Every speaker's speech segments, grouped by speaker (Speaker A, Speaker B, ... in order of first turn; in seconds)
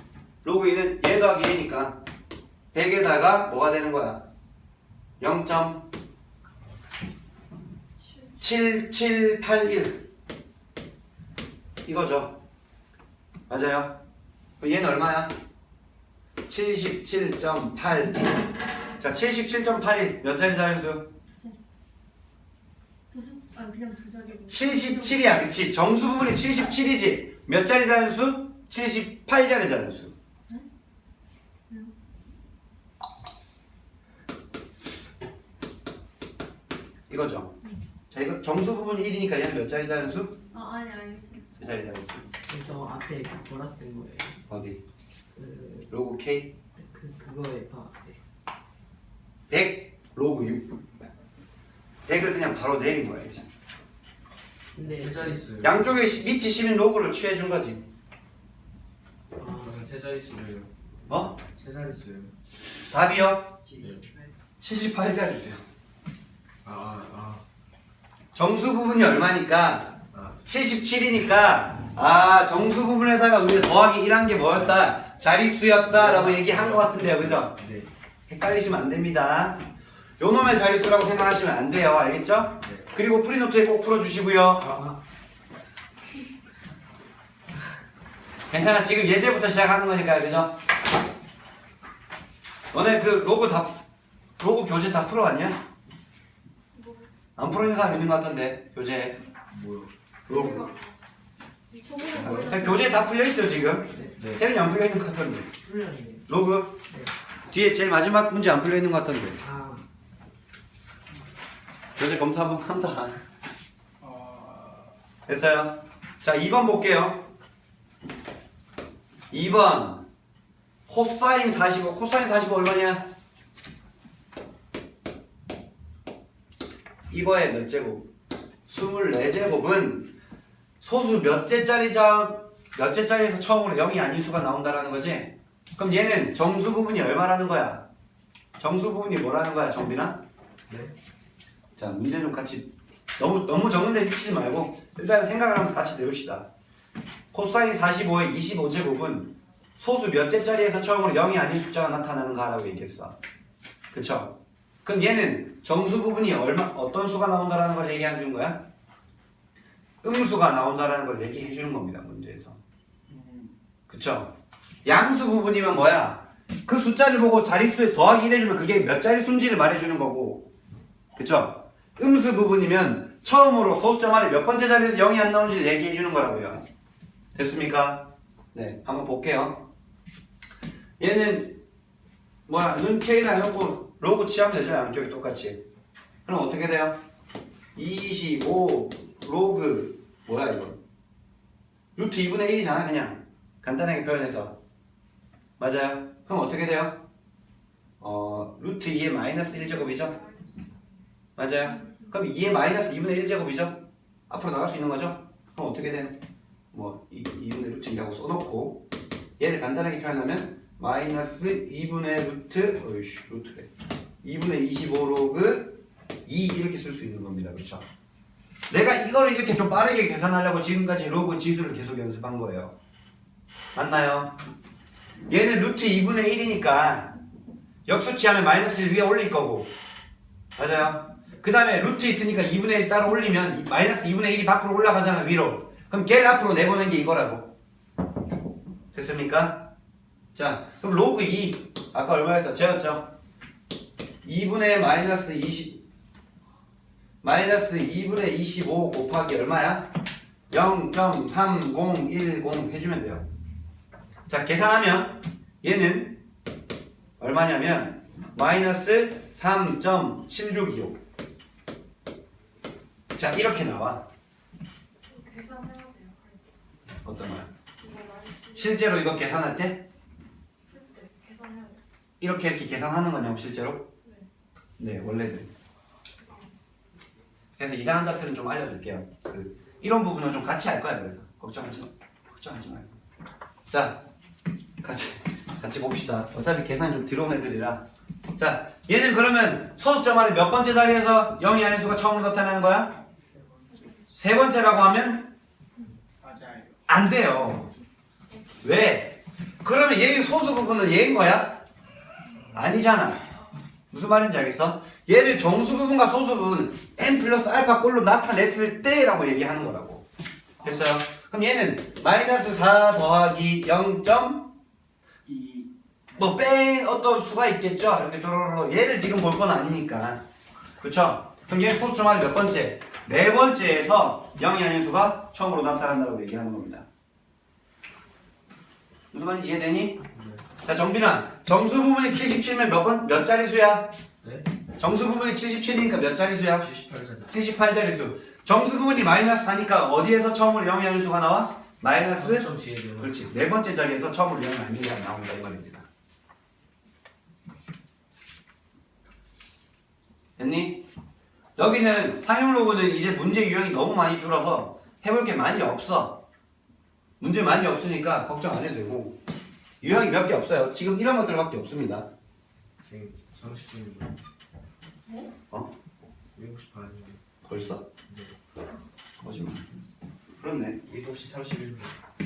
Speaker A: 0.4-2.0, 2.7-4.2, 5.2-5.9, 8.4-10.1, 11.8-12.4, 13.5-14.0, 14.6-15.4, 16.5-21.1, 24.5-30.1, 37.1-37.5, 38.1-40.4, 41.6-42.3, 44.5-44.8, 45.9-46.5, 49.5-50.8, 52.1-53.5, 55.6-57.9, 61.1-61.4, 62.9-63.8, 64.6-65.6, 68.3-77.6, 78.3-79.7, 80.2-84.8, 88.5-90.6, 92.7-93.8, 94.4-95.6, 97.4-99.2, 100.3-100.7, 102.1-105.5, 106.3-106.8, 107.5-109.4, 112.0-113.2, 115.3-117.3, 119.3-120.1, 120.9-123.1, 127.1-128.1, 128.7-130.1, 130.8-137.8, 138.6-140.2, 141.8-146.5, 147.3-153.2, 153.9-158.7, 160.0-162.6, 163.9-164.3, 164.8-170.5, 171.2-176.6, 177.3-179.7, 181.0-181.6, 182.5-185.6, 186.3-187.0, 187.8-190.8, 192.0-194.6, 195.6-197.0, 198.0-200.2, 201.4-206.2, 206.7-208.9, 209.4-213.7, 214.2-217.9, 218.7-222.7, 223.8-224.4, 225.3-227.1, 227.9-229.7, 230.6-237.6, 238.9-239.7, 240.3-243.1, 244.2-245.8, 247.2-249.9, 250.5-253.3, 254.3-256.2, 257.2-261.0, 263.1-264.1, 267.0-267.5, 268.5-269.9, 272.2-273.9, 274.8-275.5, 277.6-282.9, 283.7-284.0, 284.8-287.8, 288.4-293.0, 294.1-295.3, 296.9-297.7, 298.6-301.6, 302.5-303.3, 303.9-310.1, 310.6-314.5, 316.1-320.2, 320.8-326.9, 329.1-330.0, 330.6-334.0, 334.8-336.7, 337.2-345.9, 350.4-350.9, 351.6-356.2, 357.2-359.2, 359.8-362.1, 367.4-367.9, 369.2-369.7, 370.3-370.8
Speaker B: 23.1-25.4, 40.5-41.5, 96.7-97.1, 100.3-100.9, 101.7-103.0, 200.1-200.8, 201.7-202.0, 265.1-266.4, 267.8-268.9, 270.6-271.8
Speaker C: 42.5-44.4, 45.4-45.9, 46.8-48.2, 54.8-55.4, 105.6-106.3, 109.4-109.8
Speaker D: 55.0-55.8, 59.4-60.7, 61.5-62.3, 63.8-64.1, 66.6-67.4, 70.1-70.4, 75.8-77.9, 99.5-99.9, 104.2-104.4, 330.1-330.4, 336.6-337.3, 342.1-343.2, 362.9-364.2, 366.4-367.2, 368.1-368.3, 370.9-371.9
Speaker E: 114.0-114.9, 163.1-163.5, 293.3-293.8, 296.2-296.8, 315.3-316.3